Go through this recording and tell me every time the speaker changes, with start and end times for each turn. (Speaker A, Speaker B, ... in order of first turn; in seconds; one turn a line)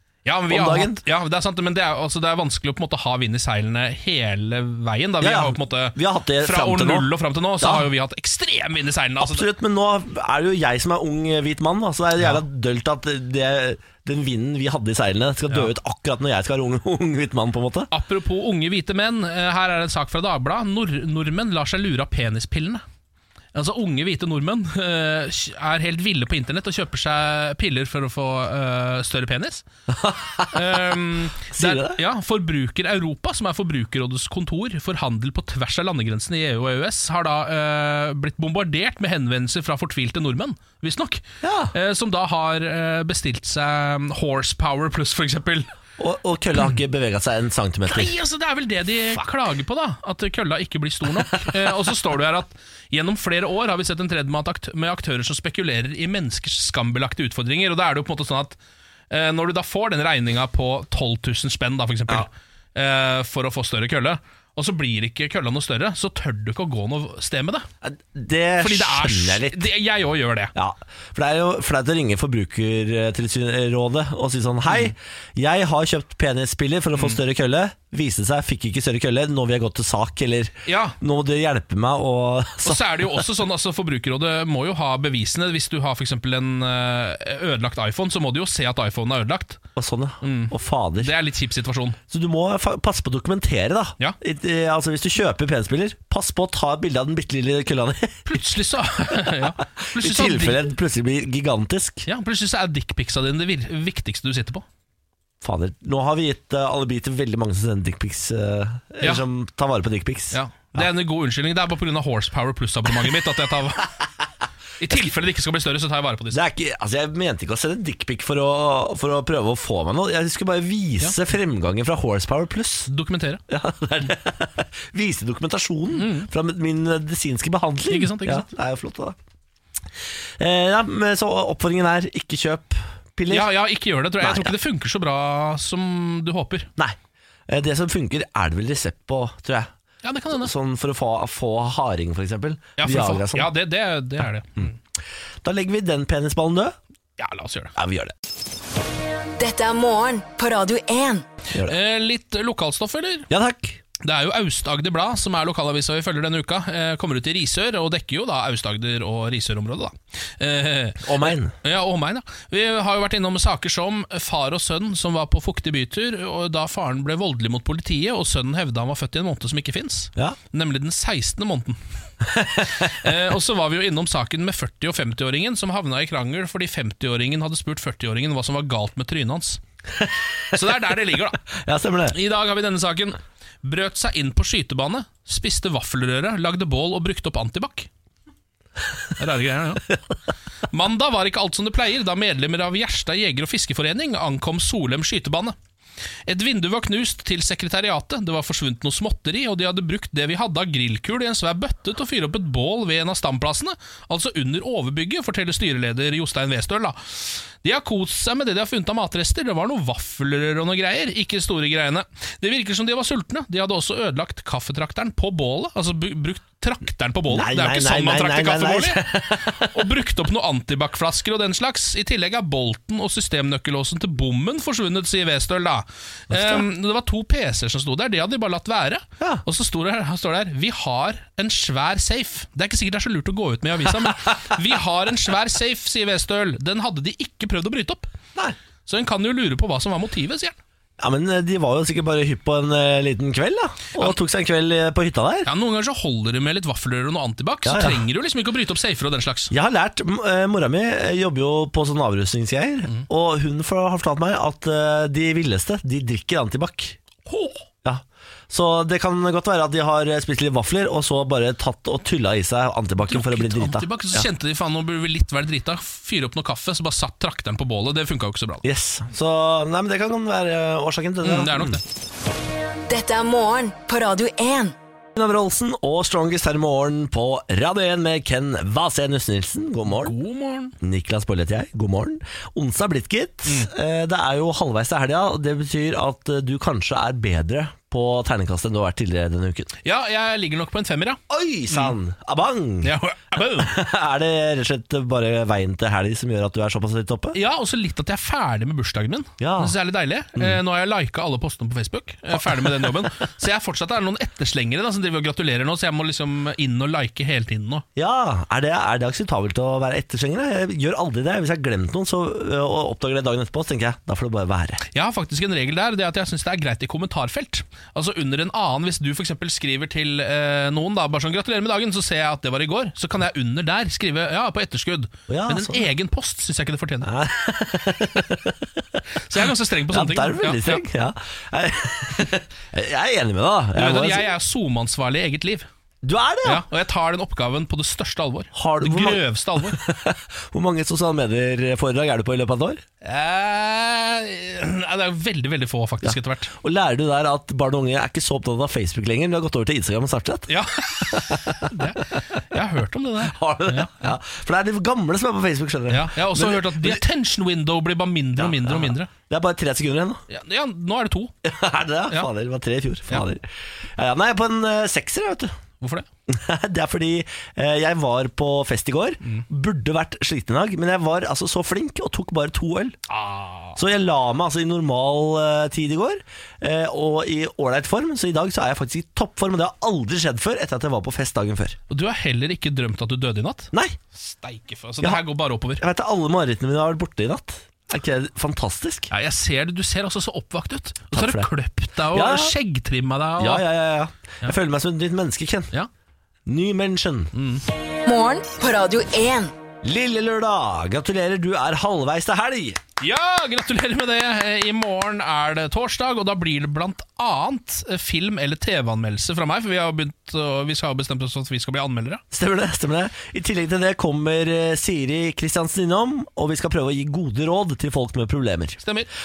Speaker A: 0.2-9.5
Speaker B: 0.5-1.0
Speaker B: 5.2-7.1
Speaker B: 7.6-7.9
Speaker B: 9.2-17.9
Speaker A: 17.9-22.8
Speaker A: 23.5-29.6
Speaker B: 29.9-30.7
Speaker A: 30.5-45.7
Speaker B: 31.5-32.0
Speaker B: 41.4-41.7
Speaker B: 46.0-48.1
Speaker A: 47.9-58.6
Speaker B: 51.2-51.6
Speaker A: 59.1-67.7
Speaker B: 67.8-69.7
Speaker A: 68.6-70.5
Speaker B: 70.5-83.2
Speaker A: 80.7-81.0
Speaker A: 82.6-89.6
Speaker B: 89.8-91.1
Speaker A: 90.2-92.0
Speaker B: 92.1-98.4
Speaker A: 98.3-100.7
Speaker B: 99.1-102.1
Speaker A: 102.1-104.6
Speaker B: 105.4-110.9
Speaker A: 110.3-114.0
Speaker A: 114.8-116.4
Speaker B: 116.3-122.9
Speaker A: 122.9-123.4
Speaker B: 123.5-129.2
Speaker A: 125.9-126.3
Speaker A: 127.9-128.4
Speaker B: 130.4-133.5
Speaker A: 133.3-136.7
Speaker B: 134.2-134.5
Speaker B: 137.5-139.7
Speaker A: 140.0-140.5
Speaker B: 140.3-143.5
Speaker A: 142.8-144.7
Speaker B: 145.4-146.8
Speaker A: 147.2-147.7
Speaker B: 147.8-148.1
Speaker C: 149.4-151.2
Speaker A: 151.6-153.3
Speaker B: 153.3-153.8
Speaker A: 154.0-171.8
Speaker B: 161.0-161.5
Speaker B: 172.3-172.9
Speaker A: 172.7-179.6
Speaker B: 180.0-180.6
Speaker A: 180.5-181.4
Speaker B: 181.6-182.2
Speaker A: 182.1-187.9
Speaker A: 189.2-189.9
Speaker A: 190.7-195.6
Speaker A: 196.3-238.1
Speaker B: 217.3-219.9
Speaker B: 226.3-226.7
Speaker A: 238.9-240.6
Speaker B: 241.0-245.5
Speaker A: 245.4-249.5
Speaker B: 247.6-248.0
Speaker B: 249.5-257.0
Speaker A: 257.3-257.6
Speaker B: 257.9-264.3
Speaker A: 263.1-268.7
Speaker B: 268.6-271.8
Speaker A: 271.2-271.8
Speaker C: 272.9-274.8
Speaker B: 275.1-280.1
Speaker A: 279.9-280.8
Speaker B: 280.8-289.7
Speaker A: 289.9-291.2
Speaker B: 291.3-297.4
Speaker A: 291.7-291.9
Speaker A: 292.8-293.8
Speaker A: 297.3-307.8
Speaker B: 299.4-299.8
Speaker B: 302.3-303.1
Speaker B: 307.9-314.8
Speaker A: 314.9-327.1
Speaker B: 325.3-325.9
Speaker B: 327.0-328.7
Speaker A: 329.2-330.8
Speaker B: 329.9-334.3
Speaker A: 333.8-335.7
Speaker B: 336.0-336.6
Speaker A: 336.4-339.8
Speaker B: 338.6-342.8
Speaker A: 343.0-346.5
Speaker B: 346.0-351.9
Speaker A: 350.5-354.1
Speaker B: 353.2-357.0
Speaker A: 355.9-359.1
Speaker B: 358.4-360.2
Speaker A: 360.3-361.3
Speaker B: 361.4-365.6
Speaker A: 365.8-366.1
Speaker B: 366.3-372.9
Speaker A: 373.1-373.8
Speaker B: 373.8-381.8
Speaker A: 381.9-385.8
Speaker B: 383.7-384.0
Speaker B: 385.8-389.1
Speaker A: 389.1-393.7
Speaker B: 391.1-391.5
Speaker B: 392.1-392.6
Speaker B: 393.4-395.7
Speaker B: 396.4-397.3
Speaker A: 397.4-397.6
Speaker C: 398.1-399.5
Speaker B: 399.8-402.8
Speaker A: 403.0-412.2
Speaker B: 412.3-418.8
Speaker A: 418.8-419.1